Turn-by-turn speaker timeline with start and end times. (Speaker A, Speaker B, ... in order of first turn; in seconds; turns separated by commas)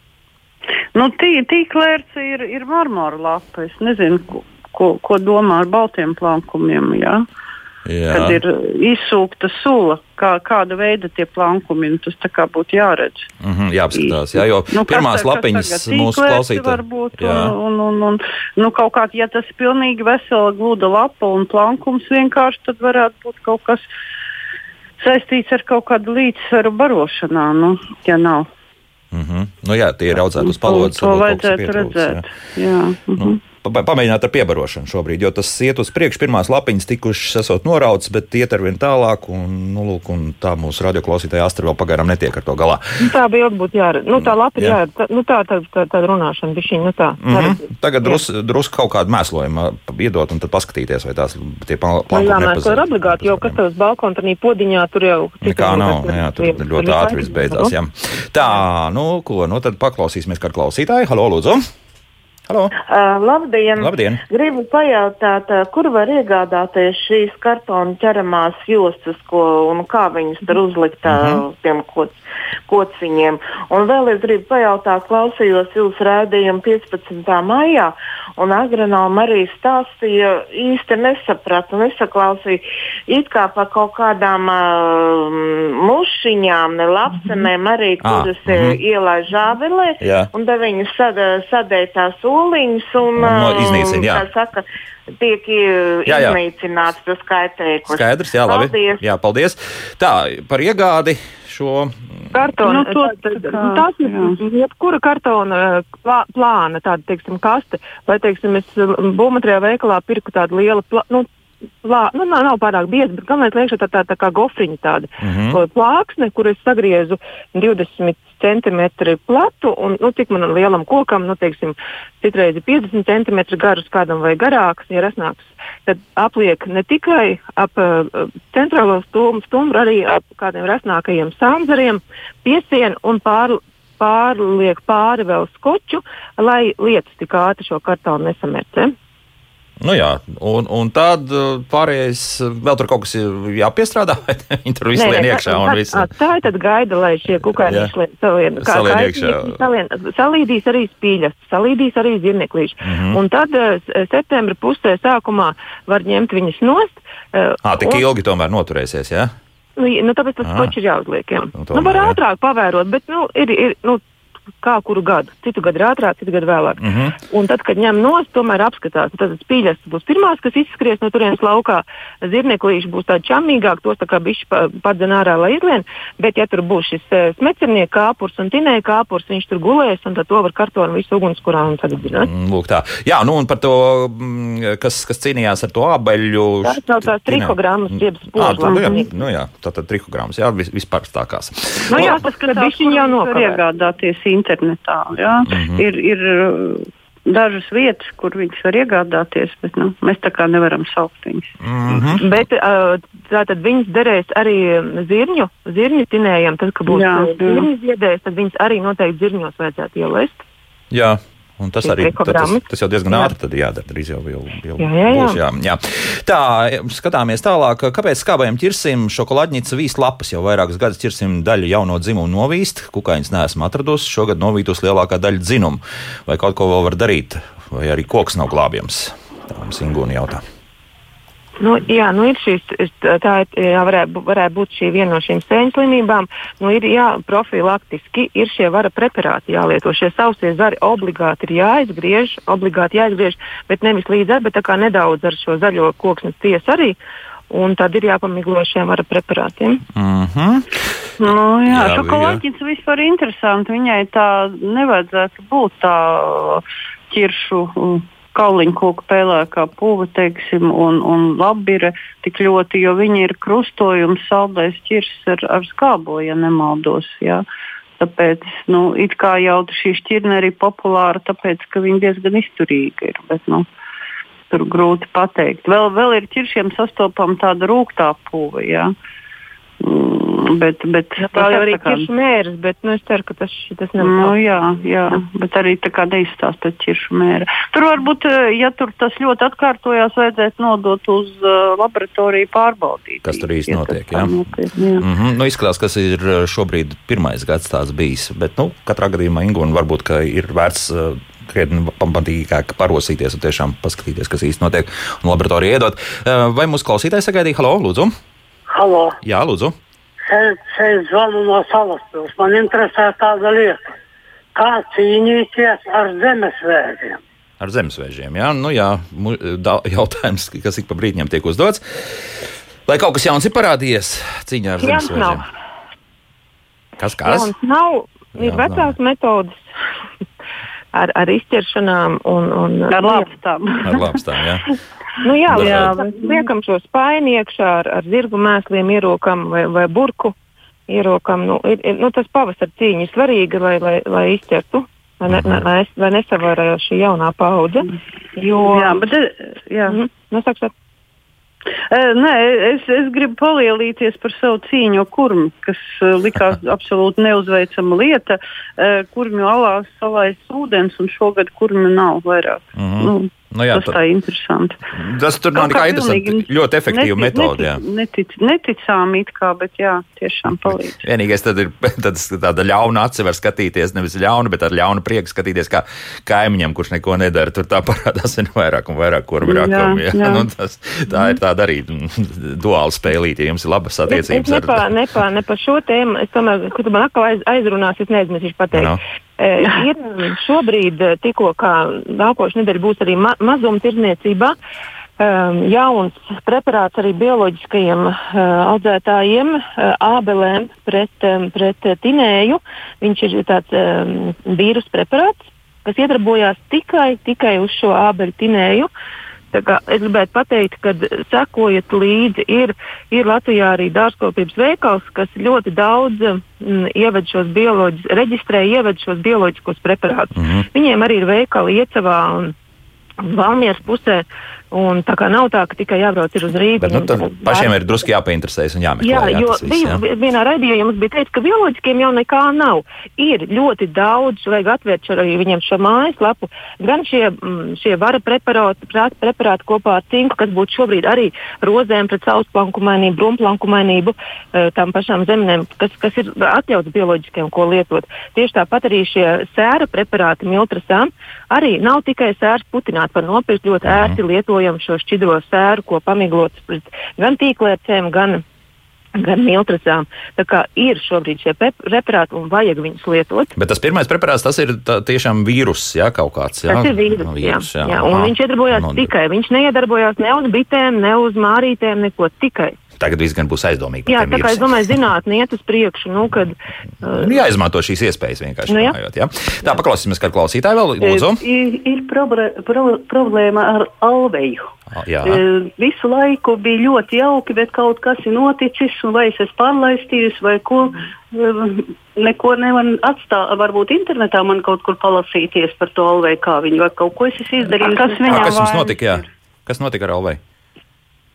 Speaker A: 0.9-7.2, Speaker B: 7.8-8.4, Speaker A: 8.1-13.3, Speaker B: 13.4-17.5, Speaker A: 13.9-23.9, Speaker A: 25.0-28.5, Speaker B: 29.1-32.2, Speaker A: 30.4-33.4, Speaker B: 33.2-43.0, Speaker C: 43.0-48.2, Speaker B: 44.2-44.8, Speaker B: 47.2-53.5, Speaker C: 52.1-57.7, Speaker B: 55.4-61.6, Speaker B: 62.5-62.7, Speaker D: 62.9-72.2, Speaker B: 63.8-64.2, Speaker B: 71.0-71.4, Speaker D: 72.7-94.6, Speaker B: 88.0-88.8, Speaker B: 90.0-90.3, Speaker B: 93.2-94.2, Speaker D: 95.2-99.0, Speaker B: 96.0-96.4, Speaker B: 97.8-102.5, Speaker C: 102.3-111.3, Speaker A: 102.6-104.3, Speaker C: 111.8-138.9, Speaker B: 115.2-115.6, Speaker B: 139.8-146.1, Speaker C: 144.9-158.1, Speaker B: 147.3-147.9, Speaker B: 148.6-149.6, Speaker B: 152.8-153.2, Speaker B: 157.6-159.3, Speaker C: 159.8-164.0, Speaker B: 160.4-160.7, Speaker B: 161.5-162.2, Speaker C: 164.6-182.3, Speaker B: 166.8-167.1, Speaker B: 182.1-192.1, Speaker C: 186.6-189.1, Speaker A: 188.7-189.0, Speaker C: 191.9-193.6, Speaker A: 191.9-201.5, Speaker B: 195.4-195.8, Speaker B: 201.6-202.4, Speaker C: 202.1-210.4, Speaker A: 206.9-207.7, Speaker B: 210.9-230.4, Speaker C: 211.8-213.3, Speaker C: 214.8-215.4, Speaker C: 231.6-247.0, Speaker C: 247.5-249.8, Speaker B: 249.9-252.4, Speaker A: 251.2-267.4, Speaker A: 268.0-273.6, Speaker A: 274.5-278.9, Speaker A: 279.8-282.1, Speaker C: 281.2-284.4, Speaker A: 284.0-295.1, Speaker B: 293.2-294.3, Speaker B: 295.0-308.1, Speaker E: 308.7-309.1, Speaker B: 309.2-309.8, Speaker E: 310.3-313.8, Speaker E: 314.6-317.2, Speaker B: 317.6-325.4, Speaker C: 324.8-325.4, Speaker B: 327.0-327.5, Speaker C: 327.2-329.7, Speaker B: 328.4-328.9, Speaker C: 330.9-333.3, Speaker A: 332.9-334.2, Speaker B: 333.8-334.7, Speaker C: 335.2-340.3, Speaker B: 335.5-335.9, Speaker A: 335.5-336.4, Speaker C: 340.9-349.0, Speaker B: 345.3-345.6, Speaker A: 348.6-350.0, Speaker C: 349.9-350.7, Speaker A: 351.9-364.8, Speaker B: 362.8-364.0, Speaker B: 364.9-367.8, Speaker A: 365.5-371.0, Speaker B: 370.5-384.9, Speaker A: 379.4-380.5, Speaker C: 384.1-394.5, Speaker B: 388.7-389.0, Speaker C: 395.2-408.9, Speaker C: 409.5-422.5, Speaker B: 420.3-420.6, Speaker C: 423.2-427.7, Speaker B: 426.8-430.0, Speaker C: 429.0-458.4, Speaker B: 453.8-454.2, Speaker C: 459.1-463.5, Speaker B: 463.5-469.1, Speaker C: 466.7-472.8, Speaker B: 473.0-475.0, Speaker C: 474.1-477.4, Speaker B: 477.1-481.4, Speaker C: 478.7-478.9, Speaker F: 481.0-484.6, Speaker B: 484.9-485.4, Speaker F: 485.2-498.5, Speaker A: 497.8-499.1, Speaker B: 498.3-500.4